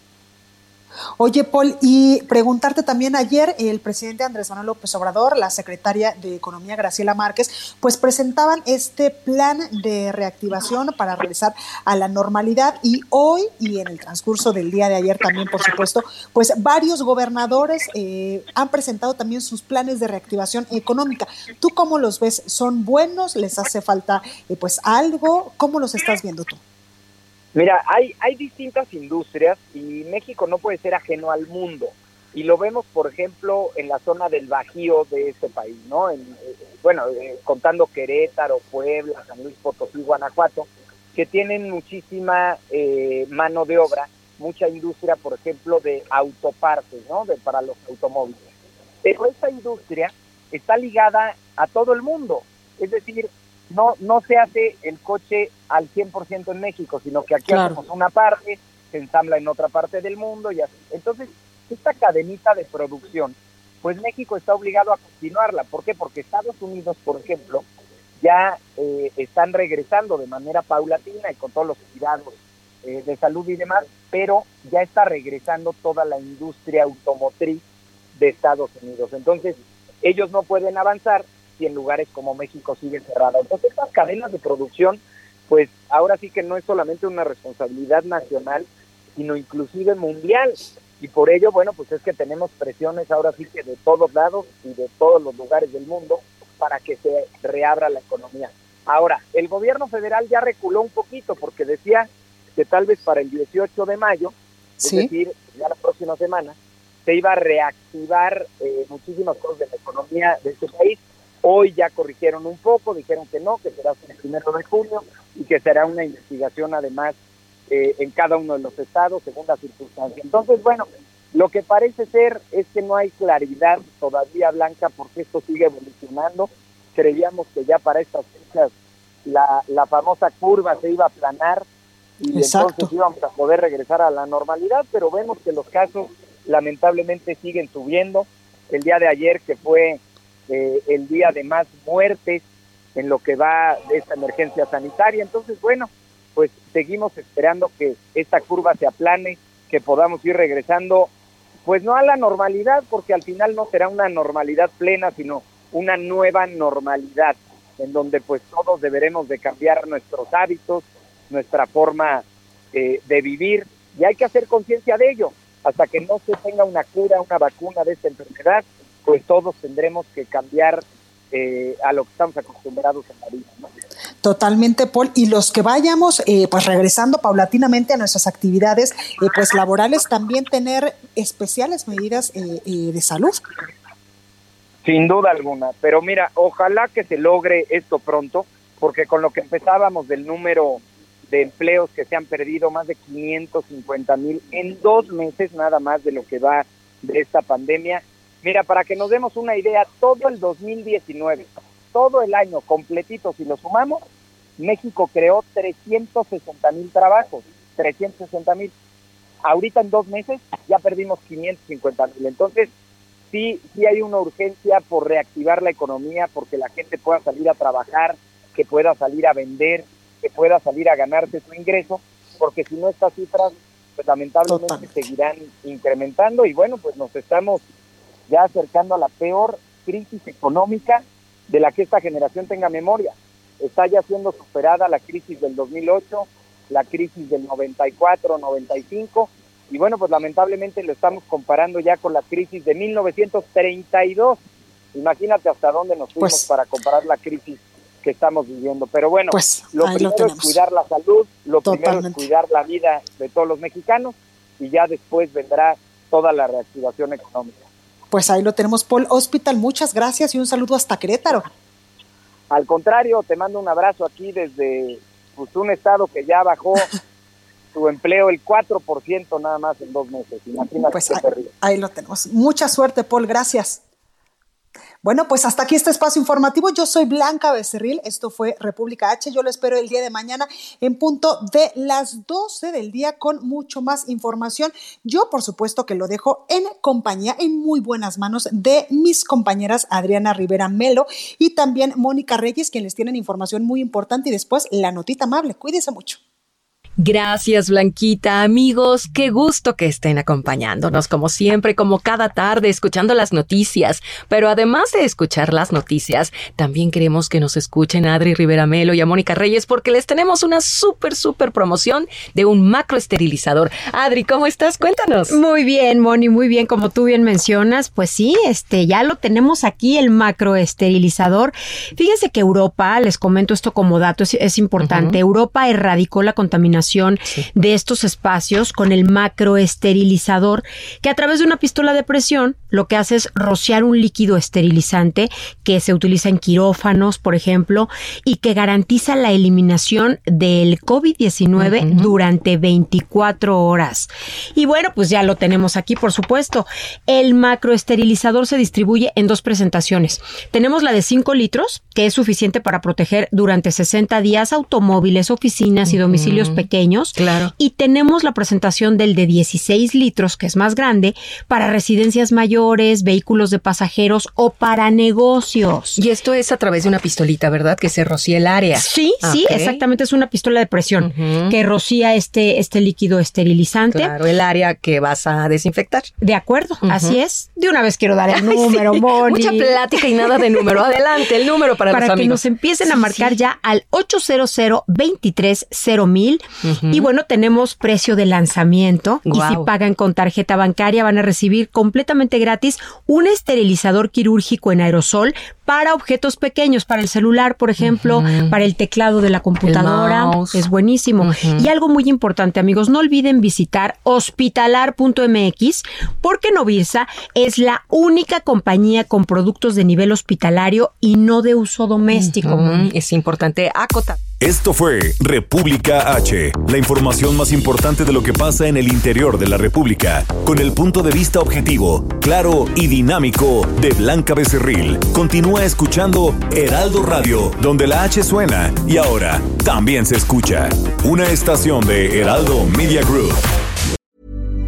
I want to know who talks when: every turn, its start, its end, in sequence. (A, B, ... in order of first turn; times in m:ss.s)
0:01.2-0:26.6 A
0:27.6-0:48.5 B
0:49.0-1:07.6 B
0:57.5-0:57.8 A
1:08.2-1:17.6 B
1:18.2-1:57.2 B
1:44.8-1:45.1 A
1:57.7-2:08.7 B
2:09.3-2:11.6 B
2:12.2-2:22.4 B
2:12.4-2:12.9 A
2:23.0-2:31.1 B
2:31.7-2:53.7 B
2:54.2-3:03.4 A
3:04.8-3:24.0 B
3:24.6-3:28.7 B
3:29.4-3:32.7 B
3:33.3-3:47.6 B
3:44.5-3:44.9 A
3:48.3-4:04.4 B
4:04.9-4:17.6 B
4:09.3-4:10.6 A
4:11.7-4:12.2 A
4:18.1-4:21.5 A
4:22.5-4:26.9 B
4:27.7-4:31.5 B
4:30.9-4:33.8 A
4:35.0-4:56.2 A
4:57.0-5:15.4 C
5:15.3-6:06.0 D
5:24.8-5:25.2 C
5:41.6-5:42.1 C
5:55.9-5:57.5 C
6:06.0-6:09.8 C
6:08.7-6:14.2 D
6:11.0-6:11.6 C
6:13.9-6:16.1 C
6:16.2-6:20.4 D
6:16.8-6:17.2 C
6:18.3-6:23.4 C
6:21.9-6:52.9 D
6:26.6-6:27.1 C
6:29.2-6:29.7 C
6:37.8-6:38.6 C
6:39.7-6:40.7 C
6:41.2-6:41.7 C
6:52.1-6:54.2 C
6:54.4-7:13.4 E